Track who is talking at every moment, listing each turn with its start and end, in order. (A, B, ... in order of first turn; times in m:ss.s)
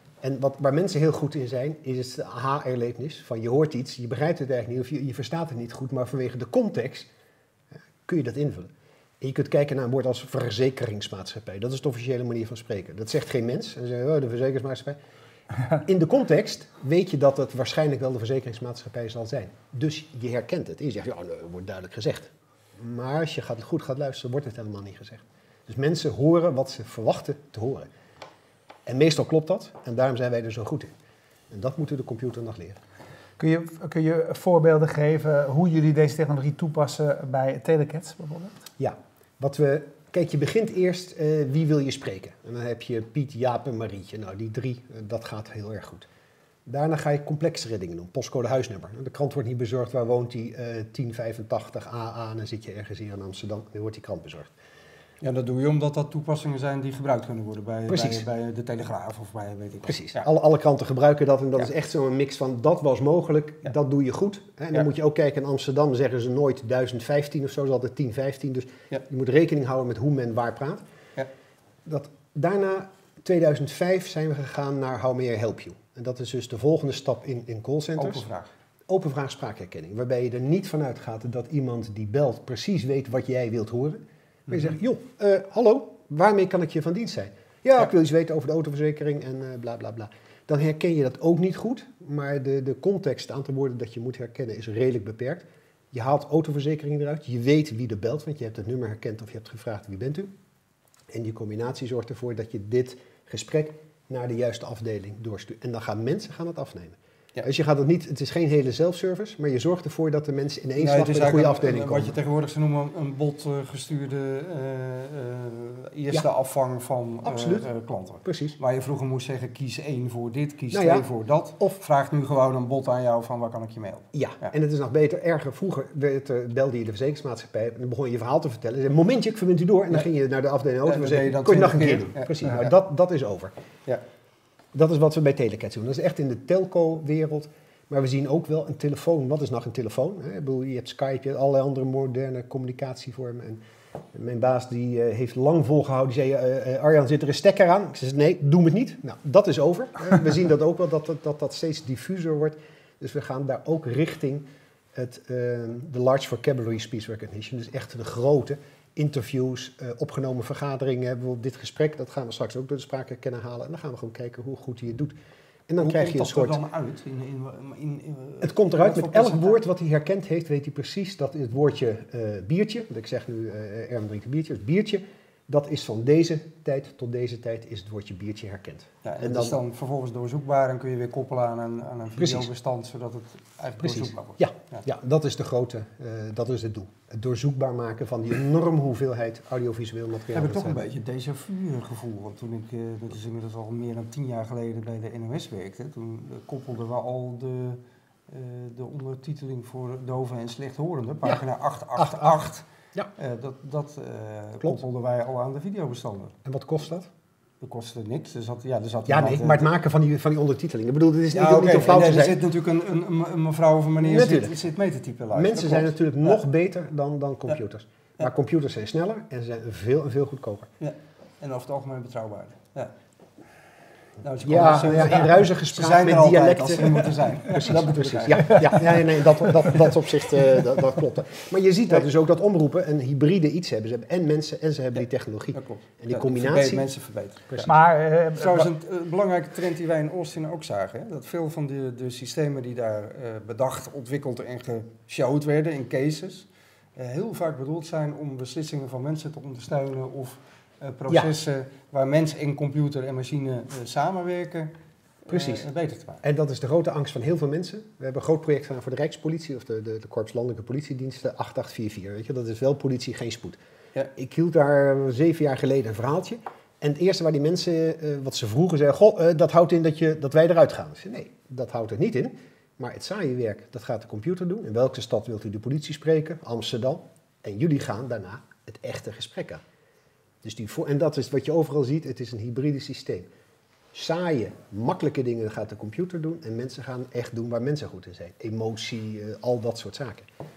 0:00.2-0:07.1 A
0:08.0-0:15.0 A
0:15.8-0:27.9 A
0:28.9-0:30.9 A
0:31.5-0:32.8 A
0:33.4-0:38.6 B
0:38.8-0:46.1 A
0:46.7-0:54.5 A
0:55.2-1:00.3 C
0:57.9-0:58.3 A
0:59.8-1:10.8 A
1:11.8-1:18.2 A
1:18.0-1:18.5 C
1:18.9-1:40.3 A
1:24.5-1:24.7 C
1:41.1-1:52.2 A
1:50.8-2:04.5 C
1:57.2-1:57.7 A
1:58.2-1:58.6 A
2:00.7-2:01.1 A
2:04.1-2:13.5 A
2:10.8-2:12.7 C
2:14.7-2:23.6 A
2:24.1-2:45.2 A
2:45.7-2:46.6 A
2:45.8-2:49.6 C
2:48.4-2:59.6 A
2:59.0-3:04.8 C
3:02.2-3:02.5 A
3:03.8-3:10.8 A
3:10.3-3:22.7 C
3:22.0-3:22.4 A
3:23.2-3:26.4 C
3:26.4-3:27.1 A
3:27.6-3:29.7 C
3:29.1-3:32.4 A
3:31.3-3:36.4 C
3:34.0-3:34.6 A
3:35.3-3:40.7 A
3:40.8-3:42.9 C
3:44.2-3:49.1 C
3:44.4-3:56.8 A
3:54.9-3:57.7 C
3:57.6-3:58.7 B
3:58.4-4:14.7 C
4:11.1-4:11.4 A
4:15.2-4:16.2 C
4:15.3-4:15.7 A
4:16.2-4:23.6 A
4:24.2-4:39.6 A
4:40.4-4:43.3 A
4:43.9-4:50.3 A